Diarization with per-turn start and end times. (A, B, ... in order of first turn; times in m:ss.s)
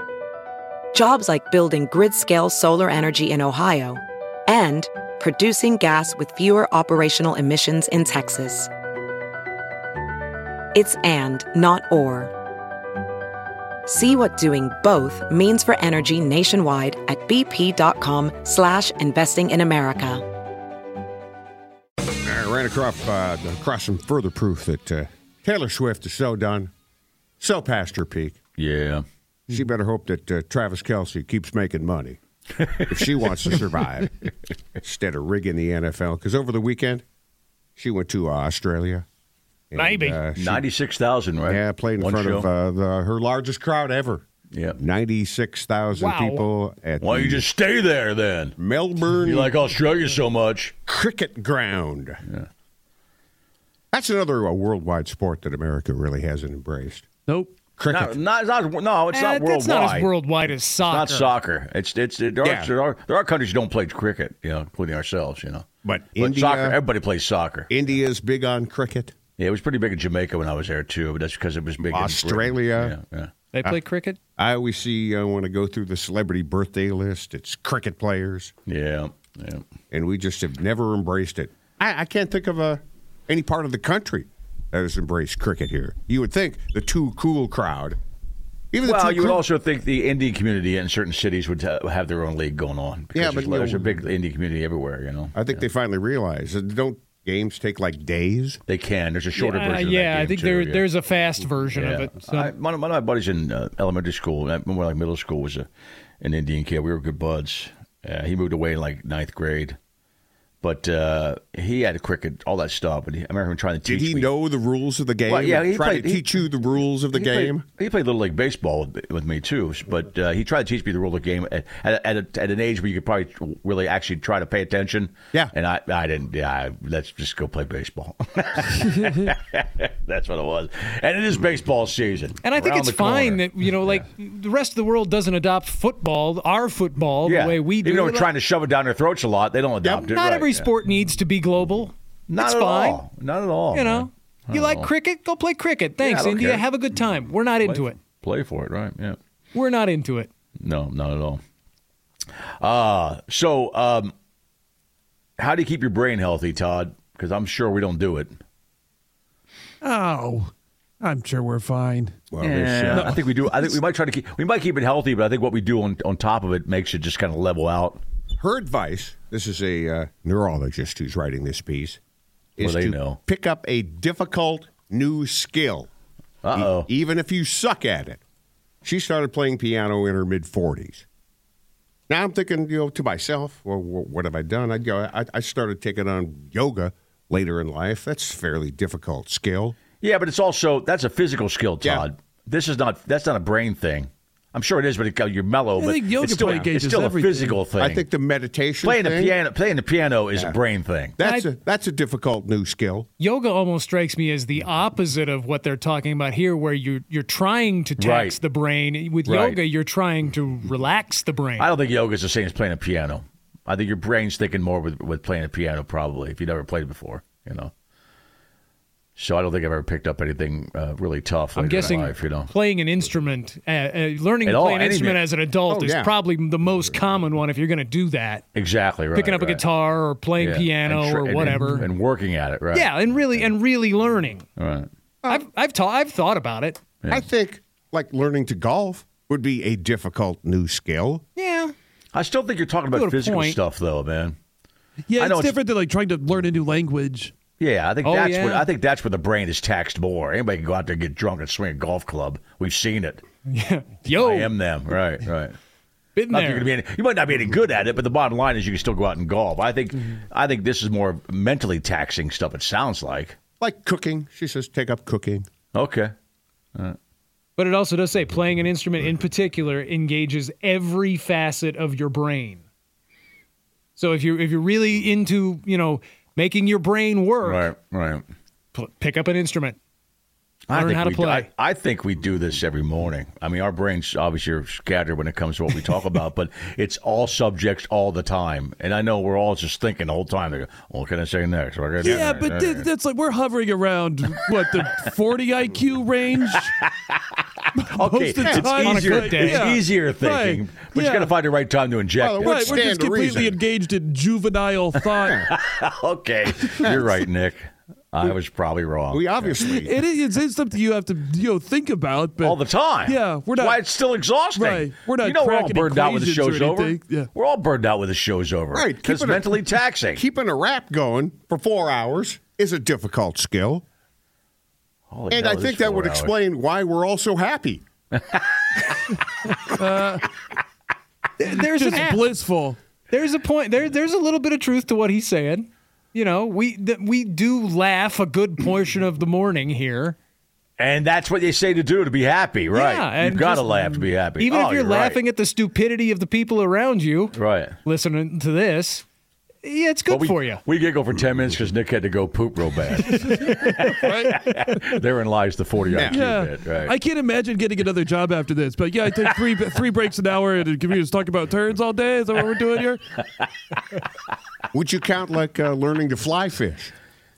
0:00.9-0:08.7 A
0:10.8-0:12.3 A
0:13.9-0:20.3 A
0:22.2-0:26.7 B
0:27.4-0:28.4 B
0:28.6-0:29.0 C
0:29.5-0:32.2 B
0:32.6-0:33.6 C
0:32.9-0:37.0 B
0:37.8-0:39.0 B
0:39.7-0:40.6 B
0:39.8-0:40.2 D
0:40.4-0:42.5 C
0:41.5-0:44.2 B
0:44.5-0:44.8 C
0:44.8-0:47.4 B
0:46.0-0:46.4 D
0:47.0-0:48.6 C
0:48.6-0:49.5 B
0:49.2-0:50.7 C
0:50.9-0:52.2 B
0:53.9-0:57.0 B
0:57.3-0:57.6 E
0:57.8-0:58.2 B
0:57.9-1:00.1 C
0:59.1-1:01.3 D
1:00.8-1:07.7 C
1:02.4-1:02.7 B
1:05.8-1:06.8 B
1:07.7-1:09.1 B
1:09.4-1:13.3 C
1:11.8-1:13.0 B
1:13.5-1:14.2 D
1:14.4-1:18.5 B
1:18.7-1:19.6 C
1:19.9-1:28.0 B
1:28.7-1:29.4 B
1:28.8-1:35.6 C
1:33.2-1:34.1 B
1:35.4-1:38.6 B
1:38.7-1:40.9 C
1:39.4-1:42.5 D
1:41.8-1:45.7 C
1:46.2-1:49.8 C
1:50.6-1:54.3 C
1:53.9-1:57.6 B
1:55.3-1:56.5 C
1:57.1-2:14.0 C
2:12.4-2:18.3 D
2:17.2-2:20.7 C
2:19.8-2:20.1 B
2:20.0-2:23.0 D
2:22.3-2:24.9 C
2:23.7-2:28.0 D
2:26.0-2:26.6 C
2:27.6-2:29.2 C
2:29.5-2:30.3 D
2:30.6-2:31.4 C
2:32.6-2:34.1 C
2:35.4-2:38.4 C
2:39.8-2:42.2 E
2:42.3-2:43.2 B
2:42.4-2:48.0 C
2:42.9-2:43.7 E
2:48.4-2:52.0 B
2:52.6-2:55.9 B
2:52.6-2:53.2 C
2:56.4-2:56.9 C
2:56.5-2:58.2 B
2:58.8-3:01.0 B
3:02.1-3:09.8 B
3:10.0-3:18.0 C
3:15.8-3:17.6 E
3:17.8-3:19.4 B
3:18.8-3:21.2 C
3:21.2-3:23.1 B
3:21.2-3:21.5 D
3:23.2-3:31.7 D
3:28.0-3:28.4 C
3:29.2-3:29.6 C
3:31.6-3:37.7 C
3:39.2-3:42.5 C
3:41.6-3:48.4 D
3:44.4-3:45.2 C
3:45.7-3:46.1 B
3:48.5-3:49.7 C
3:49.1-3:51.9 D
3:50.4-3:53.5 C
3:52.7-3:54.5 D
3:54.6-3:54.9 C
3:55.3-3:56.8 D
3:57.1-4:01.2 B
4:01.4-4:01.7 D
4:02.1-4:04.4 C
4:02.9-4:03.6 D
4:05.1-4:07.4 E
4:05.2-4:05.6 C
4:07.6-4:13.2 C
4:08.0-4:08.7 D
4:13.5-4:14.5 D
4:14.2-4:15.6 C
4:16.2-4:16.7 D
4:16.3-4:23.4 C
4:23.6-4:25.5 B
4:25.7-4:26.1 C
4:27.6-4:32.6 D
4:34.0-4:37.7 D
4:37.4-4:38.2 C
4:38.7-4:39.8 D
4:40.7-4:52.9 C
4:40.7-4:41.5 D
4:52.0-4:56.7 E
4:52.0-4:52.4 B
4:56.5-5:02.9 C
4:57.8-5:01.3 E
4:58.4-4:58.7 B
4:58.8-4:59.7 D
5:02.2-5:03.6 B
5:02.4-5:05.4 E
5:05.5-5:09.7 C
5:09.1-5:09.9 B
5:09.6-5:13.8 E
5:12.4-5:20.2 C
5:14.5-5:17.3 E
5:18.7-5:23.8 B
5:25.1-5:26.3 C
5:25.3-5:27.8 B
5:28.3-5:28.8 C
5:29.8-5:30.3 E
5:31.4-5:32.2 D
5:31.7-5:32.8 E
5:33.1-5:40.2 D
5:40.8-5:45.2 C
5:42.7-5:49.0 D
5:47.3-5:47.8 C
5:49.6-5:50.6 D
5:50.1-5:56.9 C
5:53.0-5:53.9 D
5:54.0-5:54.4 E
5:55.9-5:56.3 B
5:56.1-6:03.0 E
6:04.7-6:06.9 B